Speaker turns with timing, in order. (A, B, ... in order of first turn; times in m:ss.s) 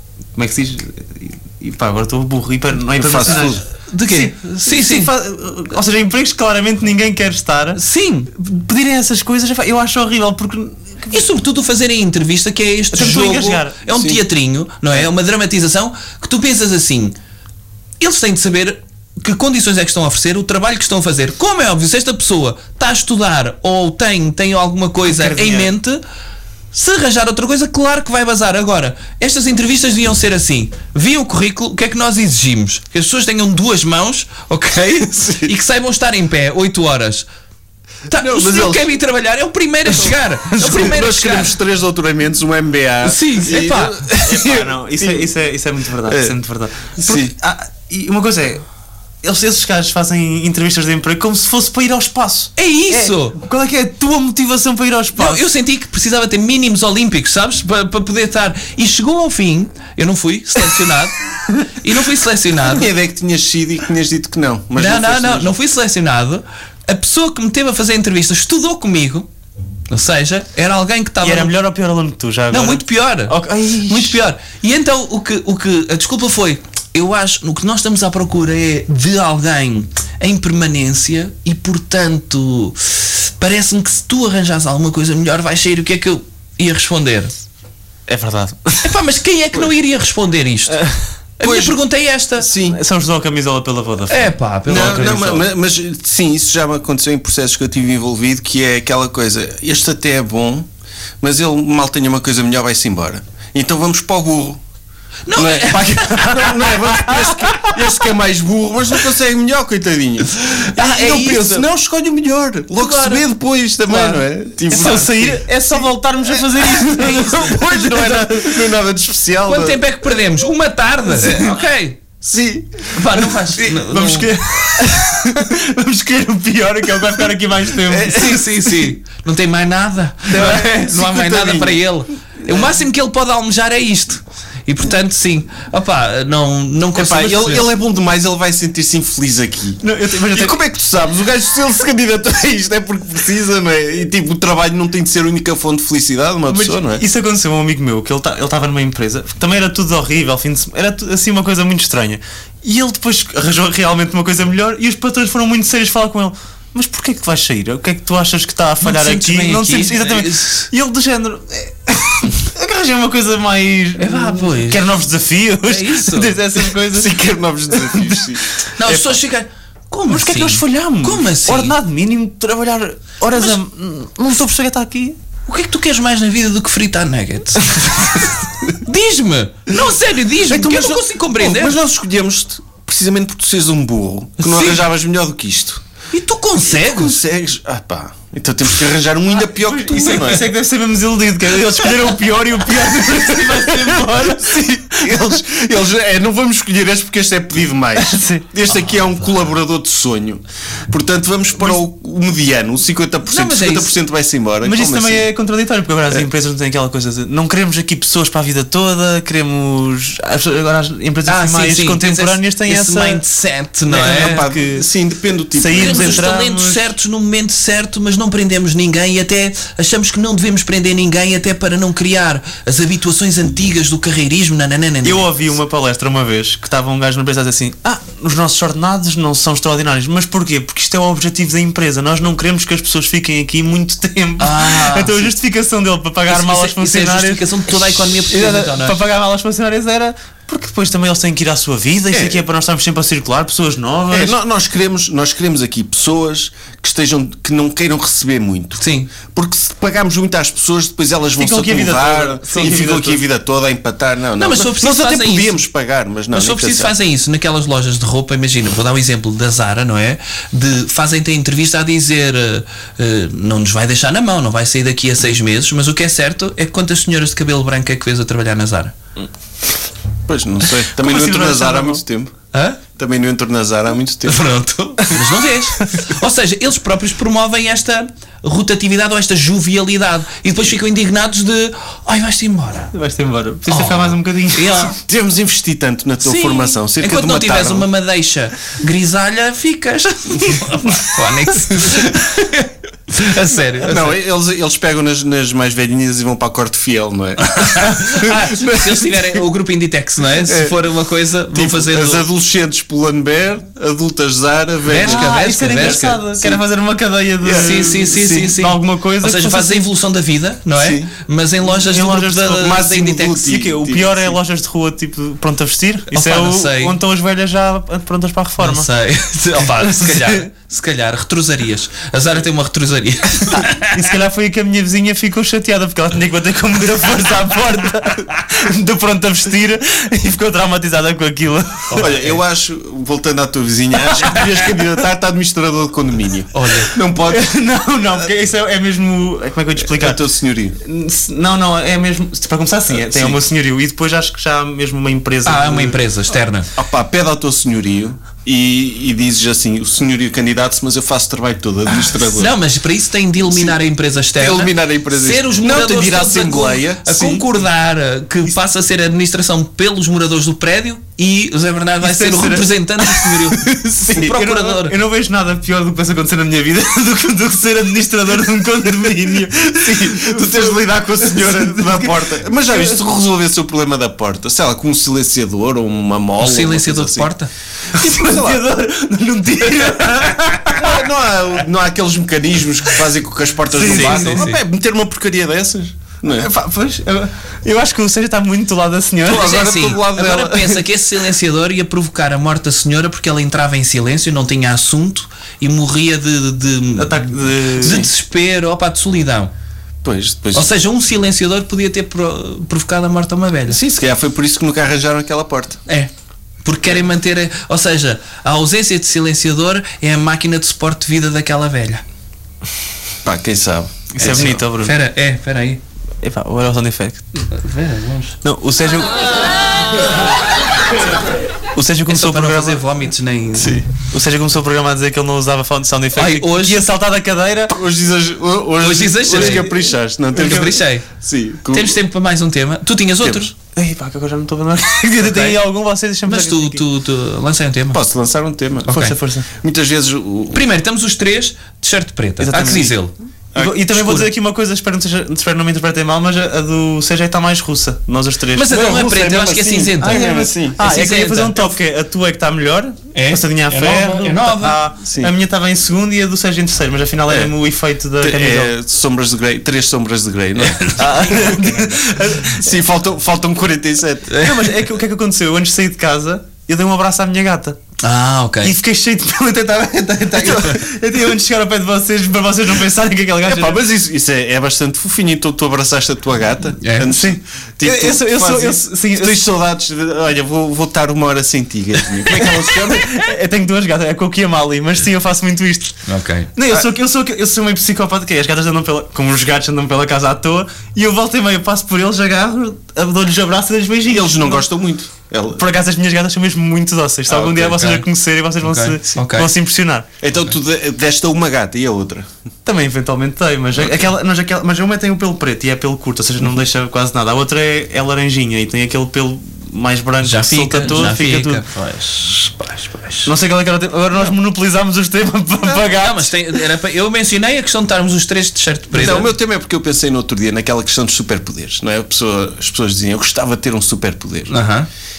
0:00.4-0:11.2 A
0:03.0-0:03.6 B
0:03.9-0:05.1 C
0:07.8-0:08.3 C
0:11.1-0:17.2 C
0:12.9-0:13.8 A
0:13.9-0:14.2 B
0:18.0-0:26.0 C
0:25.0-0:25.7 A
0:26.7-0:37.3 C
0:35.2-0:35.5 B
0:38.1-0:41.6 C
0:38.1-0:38.9 B
0:40.0-0:45.3 B
0:43.0-0:44.1 C
0:44.1-0:48.6 A
0:46.1-0:46.4 B
0:47.0-0:47.3 B
0:49.2-0:55.4 A
0:52.6-0:53.4 C
0:55.2-1:02.9 C
1:02.6-1:05.5 B
1:04.8-1:09.3 C
1:09.9-1:11.5 C
1:11.2-1:14.2 A
1:12.5-1:13.4 C
1:13.9-1:27.4 C
1:28.1-1:28.9 A
1:28.8-1:30.8 C
1:30.7-1:31.0 A
1:31.4-1:32.5 C
1:31.4-1:31.8 B
1:32.4-1:32.8 B
1:32.6-1:35.5 A
1:34.1-1:35.4 C
1:34.7-1:40.7 B
1:41.2-1:44.6 B
1:45.3-1:47.7 C
1:45.4-1:55.4 B
1:50.5-1:51.7 C
1:52.8-1:53.2 C
1:53.9-1:55.4 C
1:54.7-1:58.7 A
1:56.6-1:59.8 B
1:59.5-2:02.0 C
2:01.2-2:01.6 B
2:02.2-2:03.0 B
2:02.9-2:04.8 C
2:03.4-2:08.3 A
2:07.9-2:08.8 B
2:08.1-2:17.7 C
2:10.3-2:11.8 B
2:17.0-2:27.0 B
2:19.8-2:20.6 A
2:26.5-2:47.2 A
2:38.8-2:40.6 C
2:44.0-2:45.0 C
2:45.6-2:46.4 C
2:46.9-2:48.4 B
2:47.7-2:49.2 A
2:48.8-2:51.8 C
2:50.1-2:55.2 A
2:55.5-3:01.8 C
3:00.5-3:05.8 B
3:04.4-3:04.8 C
3:06.1-3:07.2 C
3:06.7-3:10.5 B
3:09.4-3:15.4 A
3:15.0-3:25.3 B
3:18.0-3:18.5 A
3:23.3-3:24.0 C
3:24.6-3:33.2 A
3:31.3-3:34.4 C
3:33.9-3:34.8 A
3:33.9-3:36.2 B
3:35.5-3:36.9 A
3:35.7-3:45.3 C
3:45.0-4:04.4 A
3:54.4-3:55.3 C
3:56.3-3:59.0 C
4:02.1-4:02.4 B
4:04.1-4:16.9 B
4:08.8-4:09.1 C
4:11.4-4:13.2 A
4:14.4-4:15.6 C
4:16.3-4:29.0 C
4:30.3-4:32.3 B
4:31.0-4:32.0 A
4:32.5-4:32.8 C
4:33.0-4:34.5 B
4:34.3-4:42.9 C
4:42.9-4:44.9 A
4:43.7-4:45.0 C
4:45.0-4:47.9 B
4:46.2-4:54.2 C
4:53.8-4:59.3 B
4:57.4-5:02.2 C
5:00.5-5:00.8 B
5:01.5-5:06.6 B
5:04.8-5:06.2 C
5:04.9-5:09.9 A
5:07.4-5:08.5 B
5:07.5-5:13.5 C
5:10.8-5:11.1 B
5:11.7-5:12.8 A
5:12.6-5:14.4 B
5:13.4-5:18.9 A
5:16.1-5:17.0 C
5:18.6-5:24.0 C
5:19.8-5:20.5 A
5:23.9-5:32.4 A
5:31.9-5:37.5 B
5:34.1-5:34.4 A
5:36.5-5:36.9 C
5:37.3-5:40.2 A
5:39.8-5:40.8 B
5:40.8-5:46.0 A
5:42.9-5:43.4 B
5:45.4-5:46.7 C
5:46.8-5:52.5 B
5:52.3-6:05.0 C
5:53.5-5:53.8 B
5:54.4-5:57.5 B
6:02.0-6:03.3 A
6:03.8-6:04.4 B
6:04.2-6:12.8 A
6:09.8-6:17.3 B
6:16.4-6:17.5 C
6:17.9-6:18.6 B
6:17.9-6:21.0 A
6:20.6-6:26.5 B
6:23.7-6:24.5 A
6:23.8-6:24.6 C
6:26.4-6:29.6 A
6:29.3-6:30.8 B
6:29.3-6:39.5 C
6:37.0-6:38.0 A
6:37.8-6:38.1 B
6:40.0-6:40.7 B
6:40.5-6:43.8 C
6:43.7-6:45.8 B
6:46.6-6:52.0 C
6:53.2-6:54.6 B
6:54.2-6:55.0 A
6:54.2-6:55.8 C
6:56.2-6:57.3 A
6:57.5-6:58.4 C
6:58.4-6:59.4 A
7:01.8-7:02.8 A
7:02.1-7:03.8 C
7:03.6-7:03.8 B
7:03.9-7:07.8 A
7:06.2-7:06.8 C
7:07.7-7:12.0 B
7:08.8-7:11.1 C
7:09.3-7:09.7 A
7:10.4-7:10.6 A
7:11.7-7:13.5 C
7:13.8-7:16.8 A
7:15.2-7:15.6 C
7:16.3-7:18.0 C
7:17.9-7:19.0 B
7:18.9-7:19.2 C
7:18.9-7:19.5 A
7:19.5-7:20.6 B
7:20.5-7:23.1 C
7:22.4-7:23.0 A
7:23.6-7:24.3 B
7:23.6-7:28.8 A
7:28.6-7:31.7 C
7:28.7-7:30.8 B
7:30.0-7:38.7 A
7:33.1-7:34.8 C
7:35.0-7:35.3 B
7:37.3-7:37.5 B
7:38.2-7:44.4 B
7:40.6-7:41.4 C
7:41.0-7:42.7 A
7:44.3-7:44.6 C
7:44.4-7:47.8 A
7:48.0-7:48.8 C
7:48.6-7:53.8 A
7:53.5-8:03.2 B
7:56.8-7:57.2 C
7:57.1-7:59.5 A
8:02.3-8:06.0 A
8:06.1-8:06.5 C
8:06.6-8:14.6 A
8:14.1-8:15.6 B
8:15.6-8:20.1 A
8:17.3-8:18.1 C
8:18.6-8:19.5 C
8:20.2-8:22.3 B
8:22.6-8:31.6 A
8:30.2-8:33.3 C
8:33.2-8:36.4 A
8:35.6-8:35.9 B
8:35.9-8:39.3 C
8:38.9-8:44.5 B
8:44.5-8:44.9 C